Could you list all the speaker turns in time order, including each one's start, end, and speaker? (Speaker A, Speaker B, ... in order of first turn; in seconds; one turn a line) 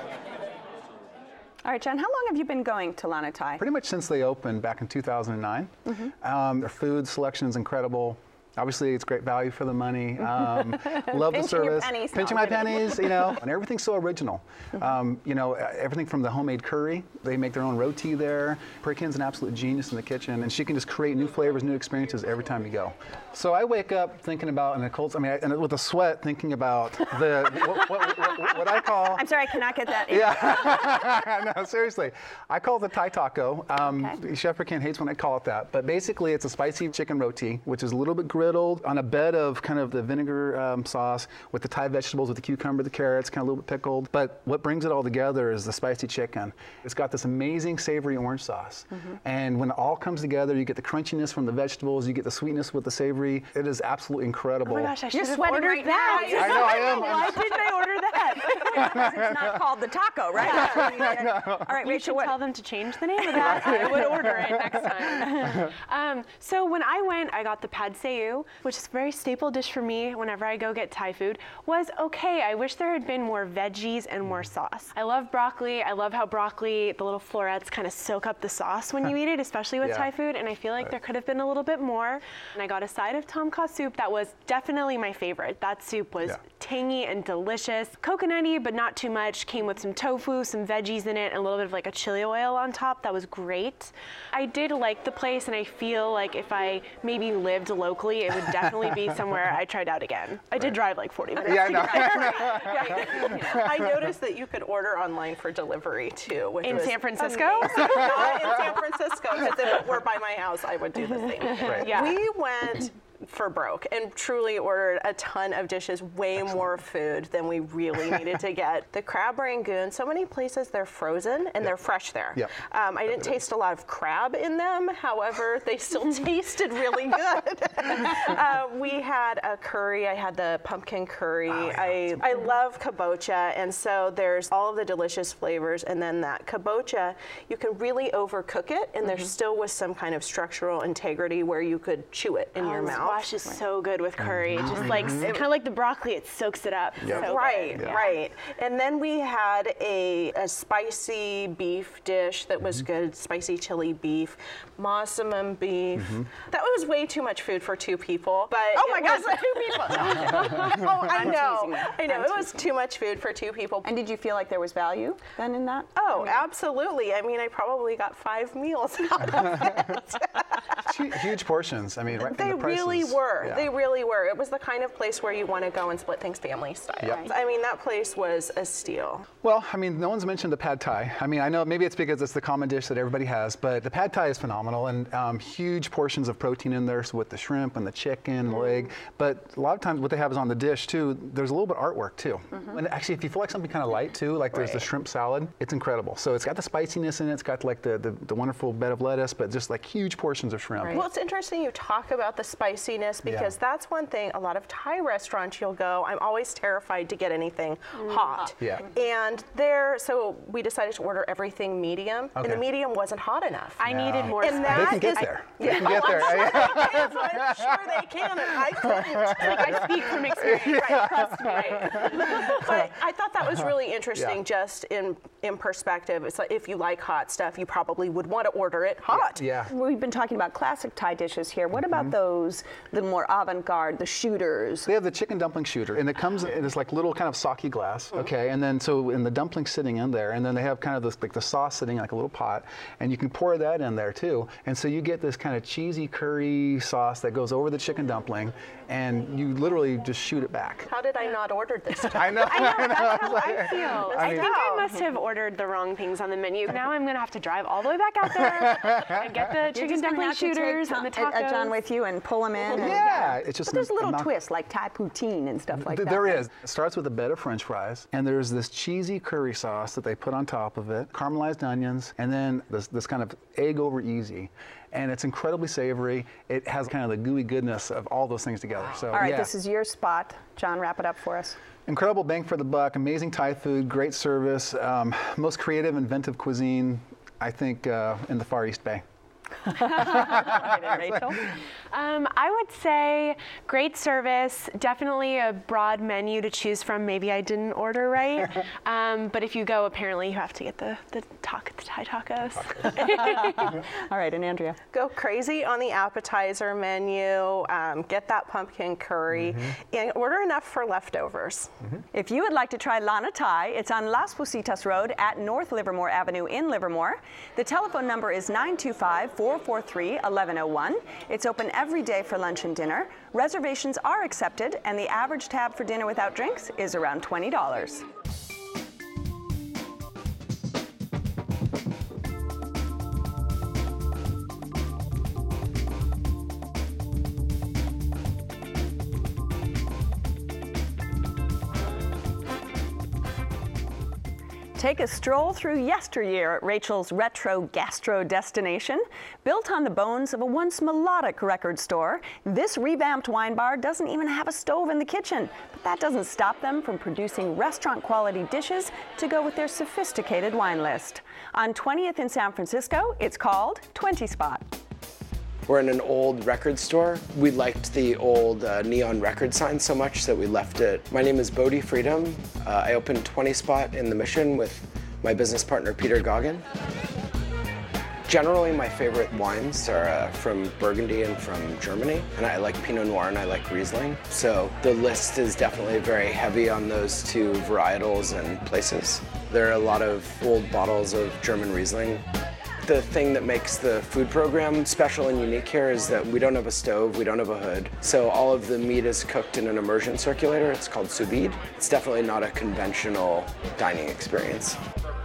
Speaker A: 1.6-3.6
Speaker B: 3.6-29.3
Speaker A: 10.3-13.4
Speaker A: 28.0-31.0
Speaker B: 30.1-54.9
Speaker C: 54.6-59.0
Speaker A: 55.1-57.3
Speaker D: 56.1-56.6
Speaker B: 56.3-57.7
Speaker A: 58.4-62.4
Speaker B: 58.8-59.5
Speaker B: 60.4-61.7
Speaker C: 61.8-103.6
Speaker A: 63.3-63.9
Speaker B: 63.4-64.7
Speaker B: 65.3-65.7
Speaker B: 79.8-80.1
Speaker B: 101.4-103.9
Speaker D: 101.8-102.2
Speaker D: 102.8-143.3
Speaker C: 106.6-108.3
Speaker B: 111.6-112.0
Speaker C: 111.6-112.2
Speaker B: 131.5-132.2
Speaker C: 142.6-148.1
Speaker B: 144.2-145.3
Speaker A: 145.0-145.3
Speaker B: 147.0-147.9
Speaker D: 147.1-163.9
Speaker B: 156.0-156.3
Speaker A: 158.8-162.7
Speaker A: 163.8-165.9
Speaker D: 165.9-170.6
Speaker B: 170.8-173.7
Speaker D: 172.1-179.3
Speaker B: 177.0-177.3
Speaker B: 179.4-201.0
Speaker D: 200.9-213.8
Speaker B: 203.2-203.5
Speaker B: 208.6-208.8
Speaker B: 212.3-212.6
Speaker C: 213.8-216.4
Speaker B: 213.8-217.8
Speaker D: 214.3-229.5
Speaker B: 218.3-222.9
Speaker C: 219.4-222.5
Speaker B: 229.1-229.7
Speaker A: 229.7-234.9
Speaker B: 231.8-232.1
Speaker B: 234.8-250.9
Speaker D: 250.9-255.1
Speaker B: 252.1-254.6
Speaker C: 252.4-261.8
Speaker B: 258.6-259.2
Speaker A: 259.7-266.4
Speaker B: 262.7-264.3
Speaker B: 265.8-279.5
Speaker A: 279.1-281.6
Speaker B: 281.9-289.0
Speaker A: 289.7-291.4
Speaker B: 289.7-291.3
Speaker C: 291.9-303.8
Speaker A: 303.0-304.8
Speaker D: 304.9-311.7
Speaker B: 309.3-309.8
Speaker A: 312.1-328.1
Speaker A: 344.7-364.7
Speaker E: 365.7-376.7
Speaker E: 378.3-392.2
Speaker E: 392.8-404.8